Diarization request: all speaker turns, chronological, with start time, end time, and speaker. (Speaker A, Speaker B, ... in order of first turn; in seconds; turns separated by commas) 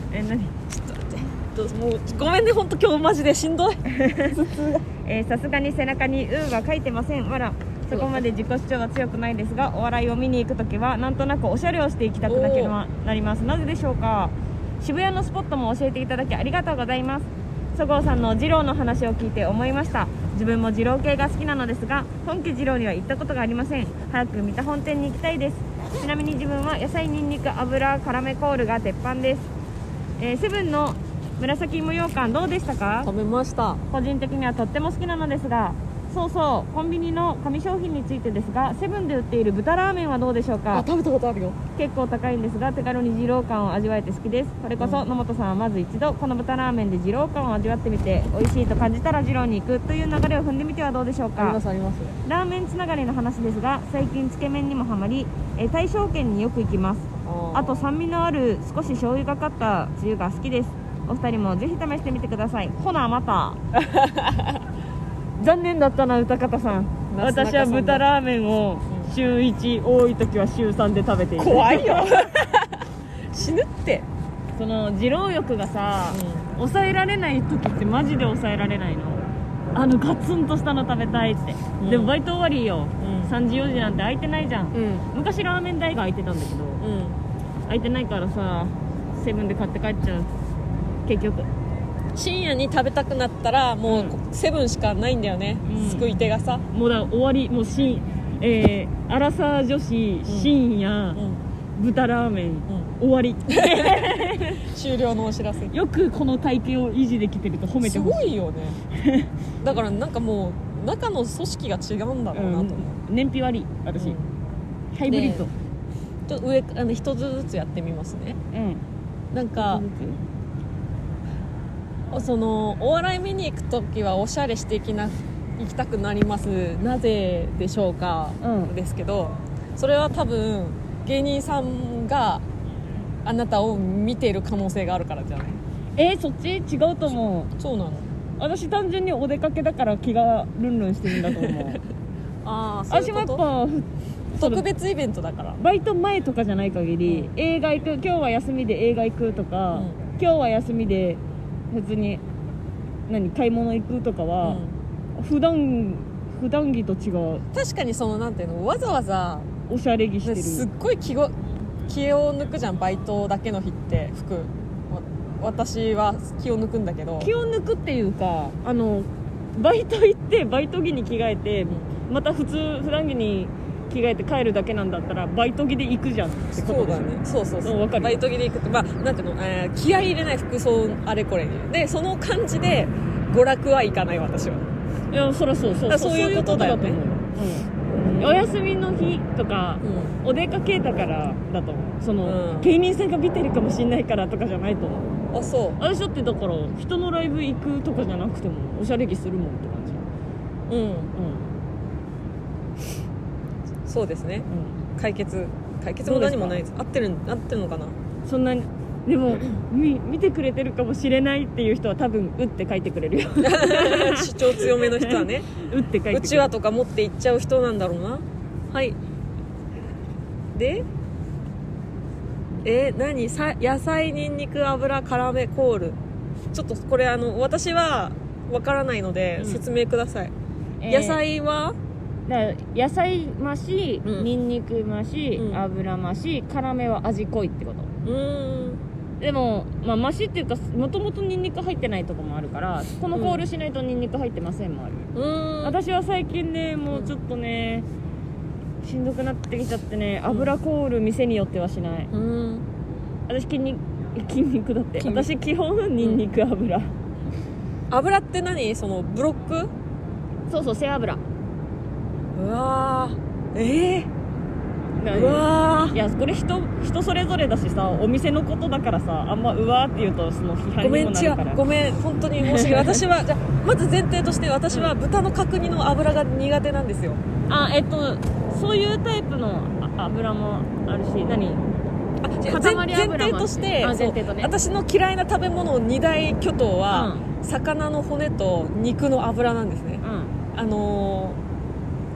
Speaker A: 0.1-0.5, Speaker B: 0.7-4.8, Speaker A: 3.9-29.5, Speaker B: 7.9-8.2, Speaker B: 12.3-12.8, Speaker A: 30.2-33.1, Speaker B: 33.0-33.8, Speaker A: 33.9-40.9, Speaker B: 40.7-41.6, Speaker A: 41.8-51.6, Speaker B: 44.8-45.1, Speaker B: 51.4-52.2, Speaker A: 52.2-63.6, Speaker B: 57.2-57.9, Speaker B: 63.8-64.6, Speaker A: 65.4-72.3, Speaker B: 67.1-68.1, Speaker B: 71.4-74.1, Speaker A: 74.6-86.8, Speaker B: 76.1-76.5, Speaker B: 81.8-82.2, Speaker B: 83.0-83.3, Speaker B: 84.7-85.1, Speaker B: 86.8-87.2, Speaker A: 87.7-90.3, Speaker A: 91.1-91.5, Speaker B: 92.2-96.7, Speaker A: 93.9-94.2, Speaker A: 95.7-96.1, Speaker A: 96.7-101.2, Speaker B: 100.3-100.5, Speaker B: 101.2-101.4, Speaker A: 101.8-104.7, Speaker B: 103.5-105.7, Speaker A: 105.7-108.3, Speaker B: 107.8-108.8, Speaker A: 108.9-109.3, Speaker B: 109.6-113.0, Speaker A: 112.3-114.2, Speaker B: 114.0-114.3, Speaker A: 114.9-115.5, Speaker B: 115.1-115.5, Speaker B: 116.3-118.4, Speaker A: 118.5-118.8, Speaker B: 119.3-119.8, Speaker A: 119.6-120.2, Speaker B: 122.1-132.4, Speaker A: 128.4-128.7, Speaker B: 133.2-135.6, Speaker A: 136.0-137.5, Speaker B: 137.6-138.1, Speaker A: 138.4-141.8, Speaker B: 141.1-141.8, Speaker B: 142.4-143.4, Speaker A: 142.9-144.7, Speaker B: 144.4-145.6, Speaker A: 145.6-152.2, Speaker B: 147.1-147.3, Speaker A: 153.1-154.6, Speaker B: 154.4-154.8, Speaker A: 155.2-157.4, Speaker B: 157.5-159.5, Speaker A: 159.7-160.7, Speaker B: 160.2-161.3, Speaker B: 161.9-167.3, Speaker A: 167.2-178.2, Speaker B: 176.6-184.7, Speaker A: 185.1-195.1, Speaker B: 185.9-187.0, Speaker B: 187.9-188.5, Speaker B: 189.8-190.2, Speaker B: 192.2-192.7, Speaker B: 195.3-195.8, Speaker A: 195.8-200.0, Speaker B: 200.7-201.1, Speaker A: 201.2-201.5, Speaker B: 203.9-207.9, Speaker A: 204.5-204.8, Speaker A: 206.0-206.6, Speaker A: 208.3-216.5, Speaker B: 213.4-215.5, Speaker B: 216.1-219.0, Speaker B: 220.5-220.9, Speaker B: 222.6-226.0, Speaker B: 226.5-230.3, Speaker A: 230.8-231.2, Speaker B: 230.9-231.8, Speaker A: 232.3-237.9, Speaker B: 235.4-235.6, Speaker B: 238.0-238.8, Speaker A: 239.2-245.1, Speaker B: 243.1-243.4, Speaker B: 245.2-245.8, Speaker A: 245.6-247.9, Speaker A: 248.8-252.1, Speaker B: 250.3-250.6, Speaker B: 252.1-252.7, Speaker A: 253.3-256.9, Speaker B: 255.0-255.3, Speaker B: 257.9-259.7, Speaker A: 260.5-261.2, Speaker B: 262.4-264.1, Speaker A: 265.0-271.6, Speaker B: 265.1-266.0, Speaker B: 270.8-277.2, Speaker A: 272.4-273.0, Speaker A: 277.5-281.6, Speaker B: 282.2-290.0, Speaker A: 282.4-284.5, Speaker A: 286.9-287.2, Speaker A: 290.0-290.4, Speaker B: 290.5-291.4